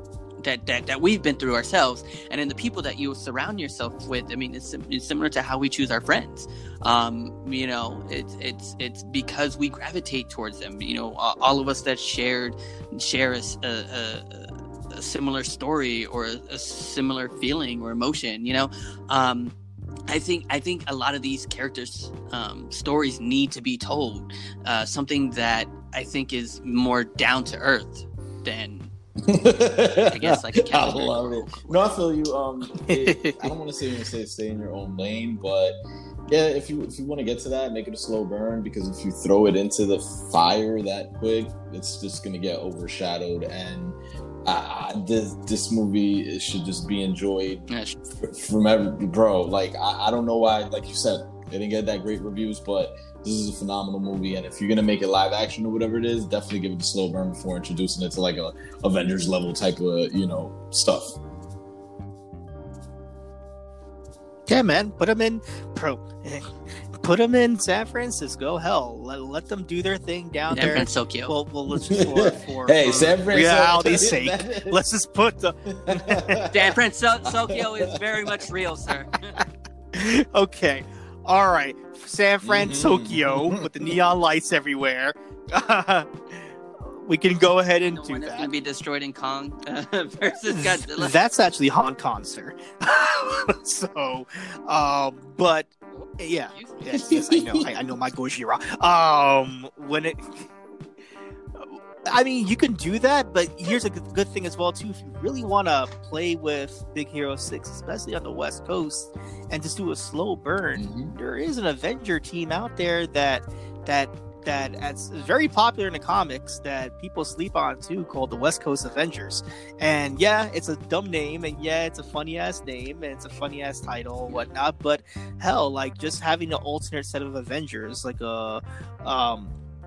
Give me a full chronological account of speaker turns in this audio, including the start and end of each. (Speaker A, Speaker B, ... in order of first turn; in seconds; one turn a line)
Speaker A: 0.4-19.5
Speaker A: 20.1-28.9
Speaker B: 29.2-61.2
Speaker A: 30.0-31.9
Speaker A: 47.7-48.0
Speaker C: 64.5-76.5
Speaker A: 70.5-71.3
Speaker B: 71.7-74.8
Speaker B: 75.7-78.4
Speaker A: 76.5-79.4
Speaker C: 79.9-88.5
Speaker B: 82.4-83.7
Speaker A: 87.9-91.2
Speaker C: 90.5-100.5
Speaker A: 96.0-96.9
Speaker B: 96.9-97.7
Speaker C: 101.6-129.5
Speaker B: 110.8-111.1